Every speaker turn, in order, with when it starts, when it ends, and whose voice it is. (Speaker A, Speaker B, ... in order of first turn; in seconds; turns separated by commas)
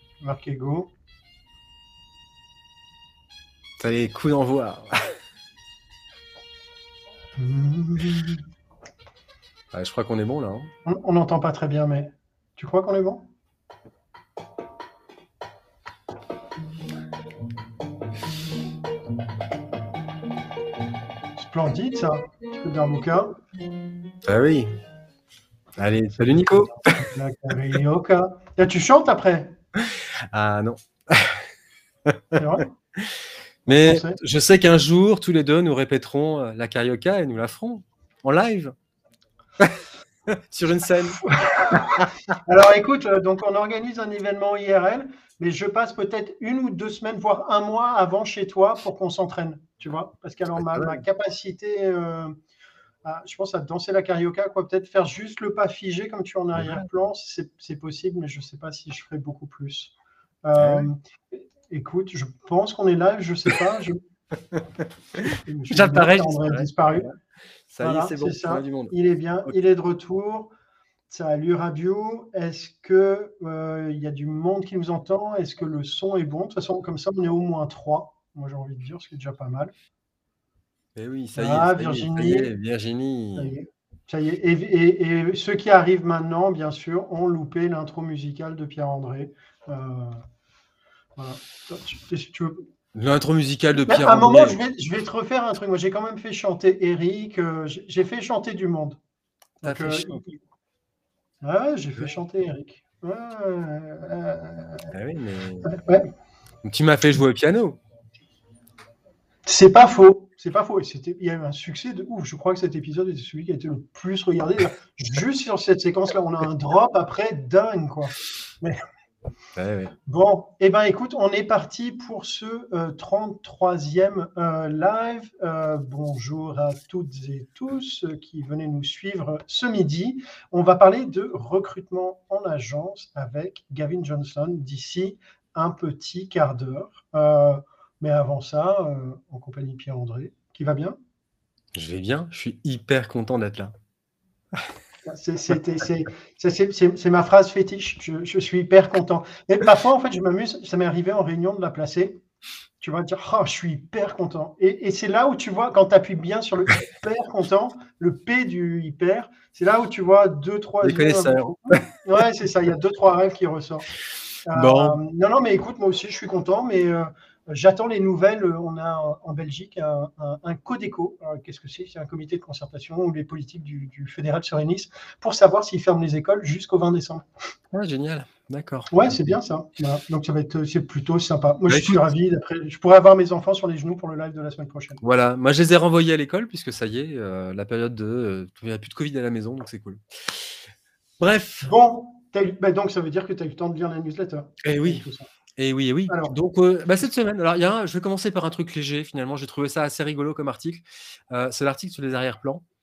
Speaker A: 0.2-0.9, Speaker B: 3.8-5.2, Speaker A: 7.4-8.4, Speaker B: 9.7-10.7, Speaker A: 10.8-13.2, Speaker A: 21.4-23.4, Speaker B: 24.2-24.7, Speaker B: 25.8-27.1, Speaker A: 27.0-29.6, Speaker B: 29.8-31.4, Speaker B: 32.1-32.4, Speaker A: 32.4-32.7, Speaker B: 33.0-38.7, Speaker A: 33.7-34.2, Speaker B: 39.6-42.1, Speaker A: 41.3-52.4, Speaker B: 50.5-51.0, Speaker A: 53.0-59.9, Speaker A: 60.5-64.0, Speaker B: 60.6-60.9, Speaker B: 65.2-66.7, Speaker A: 65.4-67.1, Speaker B: 67.7-68.9, Speaker A: 67.8-70.5, Speaker A: 71.1-79.7, Speaker B: 81.0-83.5, Speaker A: 81.3-82.5, Speaker A: 83.4-90.2, Speaker A: 91.2-92.6, Speaker B: 92.9-94.6, Speaker A: 93.9-99.0, Speaker A: 99.6-100.2, Speaker B: 99.6-100.3, Speaker A: 101.4-104.9, Speaker B: 104.9-105.8, Speaker A: 105.6-106.1, Speaker B: 106.6-107.8, Speaker A: 109.5-118.8, Speaker B: 119.5-119.9, Speaker A: 120.1-141.0, Speaker B: 141.8-143.7, Speaker A: 145.1-152.2, Speaker A: 152.8-163.9, Speaker B: 160.8-161.8, Speaker A: 164.5-177.2, Speaker B: 164.6-165.0, Speaker B: 177.7-179.4, Speaker A: 178.9-185.0, Speaker B: 181.7-182.0, Speaker B: 185.0-190.6, Speaker B: 191.2-191.7, Speaker A: 191.6-195.3, Speaker B: 194.6-195.1, Speaker B: 195.6-202.6, Speaker A: 196.1-196.3